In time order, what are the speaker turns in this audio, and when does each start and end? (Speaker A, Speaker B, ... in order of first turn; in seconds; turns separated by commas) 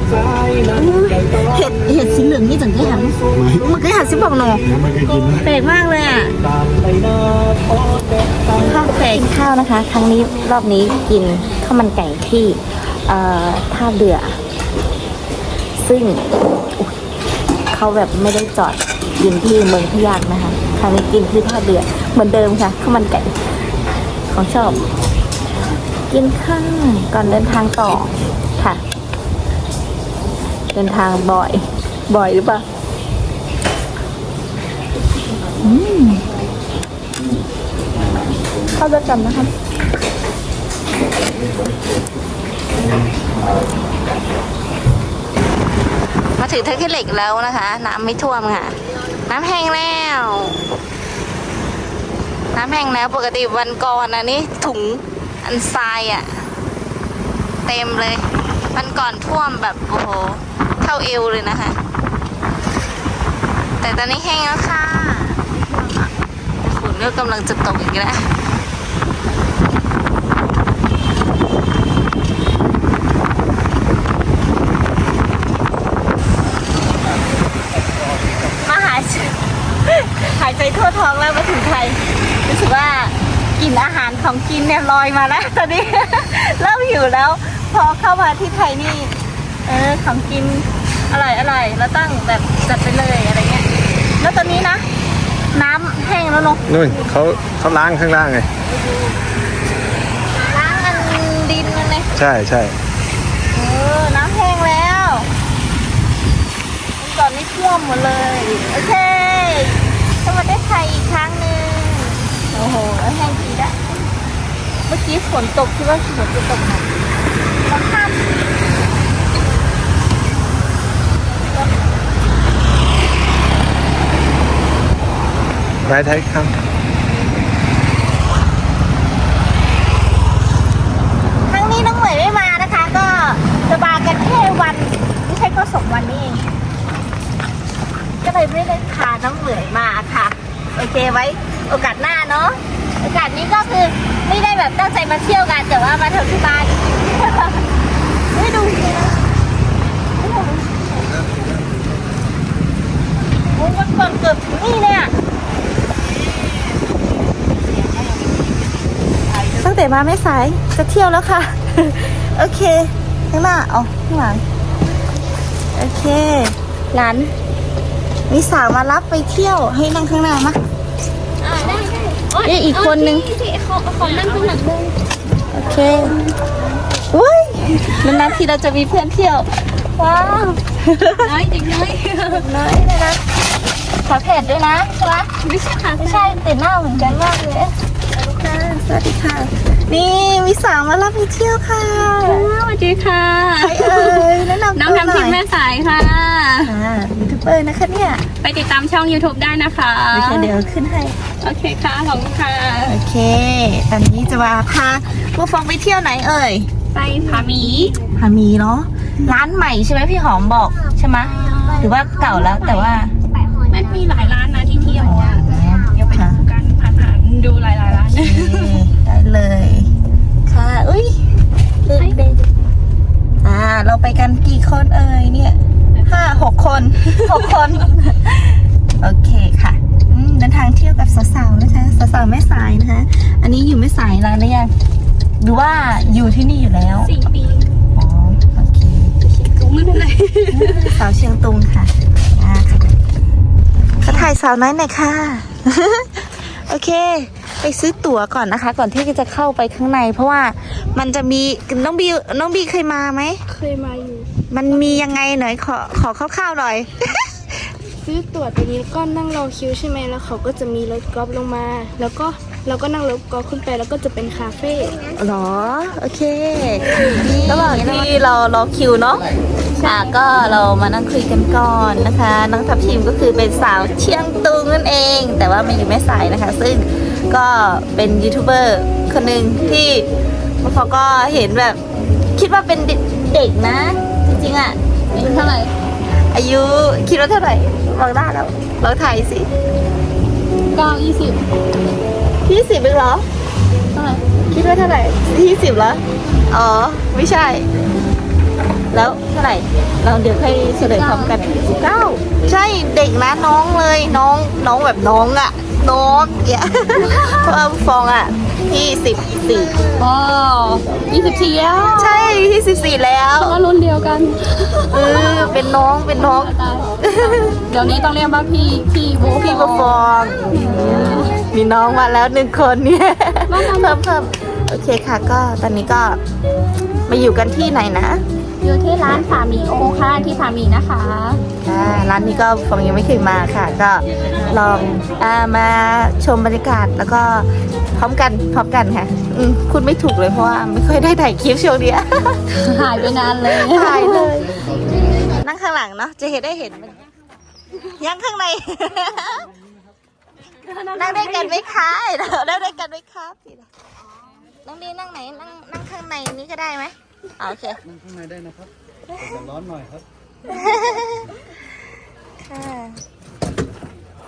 Speaker A: 0.7-4.7, Speaker A: 5.2-6.3, Speaker A: 8.6-14.4, Speaker A: 15.8-16.9, Speaker A: 17.7-23.4, Speaker A: 24.3-24.8, Speaker A: 26.1-28.8, Speaker A: 30.7-32.6, Speaker A: 35.6-36.2, Speaker A: 38.7-39.5, Speaker A: 46.4-50.6, Speaker A: 52.5-56.5, Speaker A: 57.7-61.8, Speaker A: 63.8-68.3, Speaker A: 78.5-94.9, Speaker A: 95.5-97.0, Speaker B: 96.7-98.5, Speaker A: 100.4-102.1, Speaker B: 102.2-102.8, Speaker A: 103.5-105.3, Speaker A: 107.0-113.8, Speaker A: 114.9-116.9, Speaker A: 117.6-118.2, Speaker B: 125.9-126.5, Speaker A: 131.5-136.5, Speaker A: 138.2-147.7, Speaker A: 148.3-149.3, Speaker A: 150.2-150.7, Speaker A: 153.5-155.1, Speaker A: 159.5-164.4, Speaker A: 165.8-167.3, Speaker A: 168.3-170.6, Speaker C: 171.4-175.0, Speaker A: 172.4-173.3, Speaker A: 174.3-174.7, Speaker A: 175.5-176.2, Speaker C: 176.0-176.6, Speaker A: 177.1-181.3, Speaker C: 181.2-182.5, Speaker A: 182.3-183.2, Speaker A: 184.0-185.3, Speaker C: 185.2-186.4, Speaker A: 186.0-192.5, Speaker C: 192.2-196.7, Speaker A: 193.6-195.4, Speaker A: 196.6-198.3, Speaker C: 198.4-200.6, Speaker A: 200.1-201.2, Speaker C: 201.4-203.0, Speaker A: 202.9-206.7, Speaker C: 206.9-208.0, Speaker A: 207.6-213.1, Speaker C: 211.2-213.1, Speaker C: 213.6-218.9, Speaker A: 215.0-216.4, Speaker A: 217.9-219.9, Speaker A: 220.5-221.2, Speaker A: 221.9-222.4, Speaker C: 221.9-222.3, Speaker A: 223.4-234.7, Speaker C: 226.0-226.4, Speaker C: 227.2-227.7, Speaker A: 235.4-237.1, Speaker C: 237.0-237.7, Speaker A: 237.9-239.1, Speaker C: 239.2-241.0, Speaker A: 240.5-242.9, Speaker A: 244.0-253.4, Speaker C: 244.0-244.3, Speaker C: 253.5-254.3, Speaker A: 254.5-257.7, Speaker C: 258.1-258.8, Speaker D: 258.1-264.9, Speaker C: 259.5-265.0, Speaker A: 265.1-269.3, Speaker C: 267.0-267.8, Speaker C: 269.8-270.2, Speaker A: 269.8-280.1, Speaker A: 280.6-281.8, Speaker A: 282.4-285.5, Speaker C: 285.1-285.7, Speaker A: 286.3-289.5, Speaker C: 290.7-291.5, Speaker A: 292.4-293.3, Speaker C: 293.9-294.3, Speaker A: 294.5-297.7, Speaker A: 298.9-309.8, Speaker C: 300.8-301.4, Speaker C: 307.0-307.6, Speaker C: 310.0-312.4, Speaker A: 311.9-313.6, Speaker C: 313.3-321.4, Speaker A: 314.9-317.6, Speaker A: 319.3-326.2, Speaker C: 323.5-324.1, Speaker A: 327.1-328.2, Speaker C: 328.6-331.4, Speaker A: 331.6-342.4, Speaker C: 342.5-344.3, Speaker A: 343.4-344.6, Speaker A: 345.3-347.0, Speaker A: 347.8-349.5, Speaker C: 350.5-351.9, Speaker A: 350.9-353.7, Speaker C: 354.1-354.4, Speaker A: 354.6-357.8, Speaker B: 358.1-358.6, Speaker A: 359.1-359.6, Speaker B: 359.7-360.0, Speaker A: 360.5-361.5, Speaker A: 362.4-363.0